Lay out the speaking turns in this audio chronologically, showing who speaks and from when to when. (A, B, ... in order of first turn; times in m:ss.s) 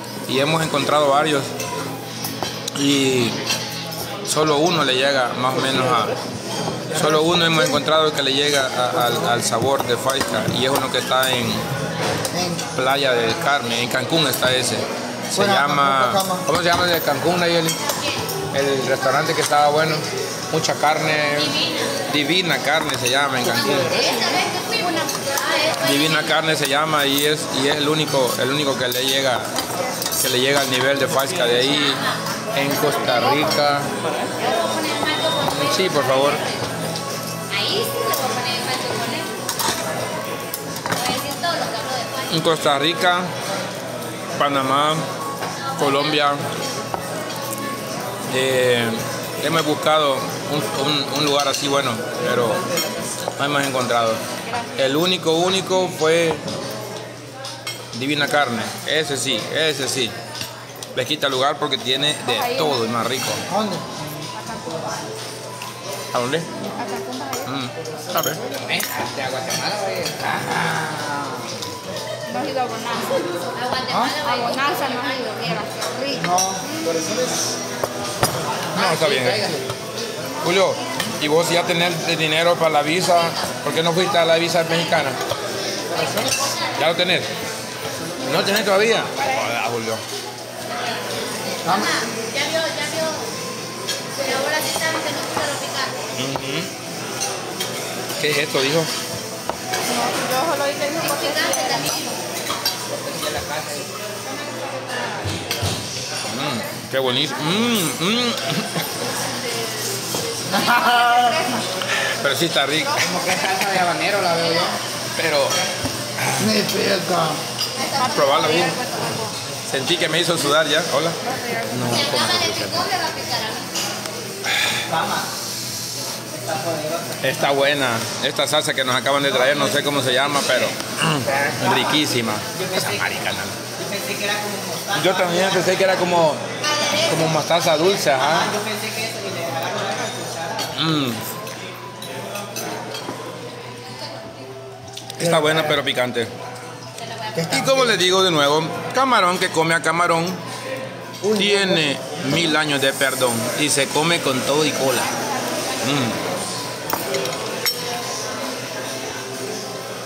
0:00.3-0:01.5 A
0:02.8-0:03.4 A
0:04.3-0:06.1 A
0:07.0-0:11.6 A
0:07.0-0:07.8 B
0:12.3-0:12.6 B
0:12.8-0:17.8 A
0:15.4-0:16.4 B
0:18.5-0:21.6 A
0:22.1-0:24.0 A
0:23.9-0:26.3 C
0:25.8-0:29.5 A
0:30.2-0:32.0 A
0:32.6-0:33.9 A
0:32.8-0:33.4 C
0:34.4-0:36.6 C
0:35.5-0:36.4 A
0:37.5-0:39.3 C
0:40.9-0:42.5 C
0:42.3-0:43.3 A
0:44.4-0:45.0 A
0:45.8-0:46.4 A
0:48.3-0:52.6 A
0:53.4-0:54.2 A
0:54.8-0:56.4 A
0:57.9-1:00.1 A
1:01.0-1:03.4 A
1:03.5-1:03.8 B
1:06.1-1:06.5 A
1:06.9-1:07.3 D
1:07.4-1:08.4 A
1:08.6-1:11.5 E
1:12.4-1:13.1 D
1:13.5-1:15.7 C
1:13.9-1:14.2 B
1:14.3-1:16.2 D
1:16.1-1:16.6 B
1:18.7-1:19.6 E
1:18.8-1:19.5 A
1:20.4-1:25.2 A
1:26.8-1:27.3 A
1:28.2-1:30.0 A
1:31.5-1:33.3 C
1:34.2-1:36.0 C
1:36.2-1:36.7 A
1:38.2-1:38.9 A
1:40.1-1:41.5 D
1:40.9-1:42.2 C
1:42.9-1:43.9 E
1:46.3-1:48.8 A
1:50.9-1:51.5 B
1:52.2-1:53.0 A
1:53.0-1:54.8 E
1:55.2-1:55.6 A
1:56.4-1:57.4 B
1:58.0-1:58.8 A
1:58.2-1:59.1 D
1:59.7-2:02.8 A
2:01.8-2:03.7 C
2:07.2-2:13.6 A
2:14.9-2:16.4 A
2:17.0-2:18.5 A
2:20.8-2:21.2 A
2:25.2-2:26.3 A
2:27.4-2:27.8 B
2:27.5-2:30.4 A
2:31.2-2:31.8 B
2:31.4-2:35.1 A
2:35.8-2:36.2 A